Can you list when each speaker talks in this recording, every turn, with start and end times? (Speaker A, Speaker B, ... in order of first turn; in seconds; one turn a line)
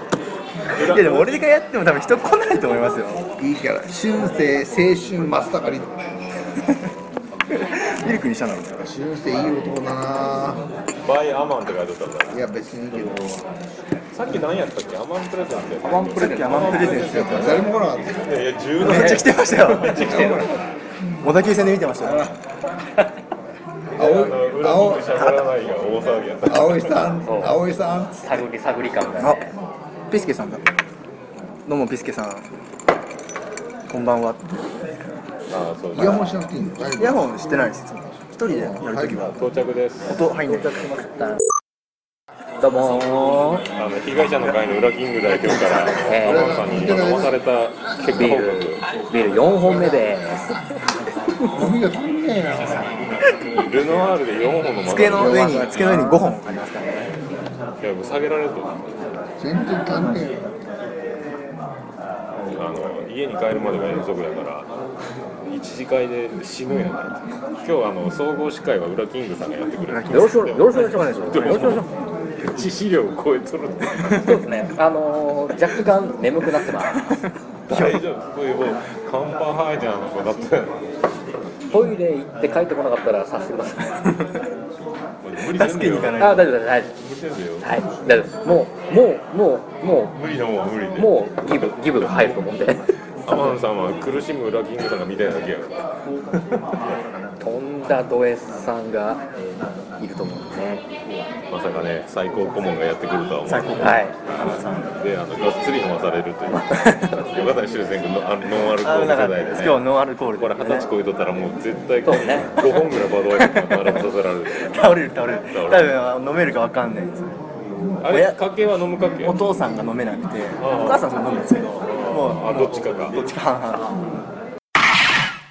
Speaker A: 0.7-1.4
Speaker B: 0.7-3.2
Speaker C: 3.4-5.9
Speaker B: 7.6-8.8
Speaker C: 8.8-10.6
Speaker A: 11.0-12.4
Speaker C: 12.3-13.4
Speaker A: 14.1-20.5
Speaker D: 15.8-16.9
Speaker B: 16.1-17.6
Speaker C: 16.8-18.2
Speaker B: 18.8-20.4
Speaker D: 18.8-19.3
Speaker D: 19.8-20.5
Speaker C: 20.0-20.5
Speaker B: 21.2-22.3
Speaker A: 23.9-27.0
Speaker C: 23.9-25.4
Speaker C: 26.4-28.4
Speaker D: 27.2-27.6
Speaker D: 28.2-29.5
Speaker B: 30.1-30.6
Speaker B: 31.7-32.5
Speaker B: 33.9-35.0
Speaker A: 35.5-36.4
Speaker C: 35.9-37.3
Speaker B: 37.0-39.4
Speaker C: 38.5-39.2
Speaker A: 39.3-40.2
Speaker B: 40.1-41.0
Speaker D: 40.8-41.4
Speaker D: 42.6-43.7
Speaker A: 43.7-48.8
Speaker C: 45.9-47.3
Speaker D: 46.0-46.6
Speaker D: 48.1-50.6
Speaker C: 49.6-50.0
Speaker C: 51.4-53.0
Speaker A: 52.5-56.2
Speaker B: 54.8-56.9
Speaker A: 57.8-59.1
Speaker C: 59.4-60.5
Speaker A: 62.5-64.7
Speaker A: 65.5-74.5
Speaker B: 69.9-71.8
Speaker D: 70.1-71.9
Speaker D: 74.1-77.2
Speaker A: 77.7-80.9
Speaker B: 77.7-78.0
Speaker D: 81.7-84.0
Speaker A: 85.2-86.3
Speaker B: 85.5-86.5
Speaker D: 86.2-86.9
Speaker A: 86.9-87.7
Speaker D: 87.6-90.1
Speaker A: 90.1-92.4
Speaker D: 91.0-93.5
Speaker A: 93.2-95.9
Speaker D: 97.4-99.2
Speaker D: 100.0-100.8
Speaker A: 101.5-109.8
Speaker B: 103.5-104.9
Speaker D: 103.8-104.1
Speaker D: 106.5-107.2
Speaker B: 108.8-110.9
Speaker A: 110.4-114.7
Speaker D: 112.0-112.6
Speaker D: 113.6-114.0
Speaker B: 114.5-117.3
Speaker A: 115.5-115.9
Speaker A: 118.0-119.4
Speaker B: 118.0-118.4
Speaker B: 119.2-123.9
Speaker A: 120.6-123.2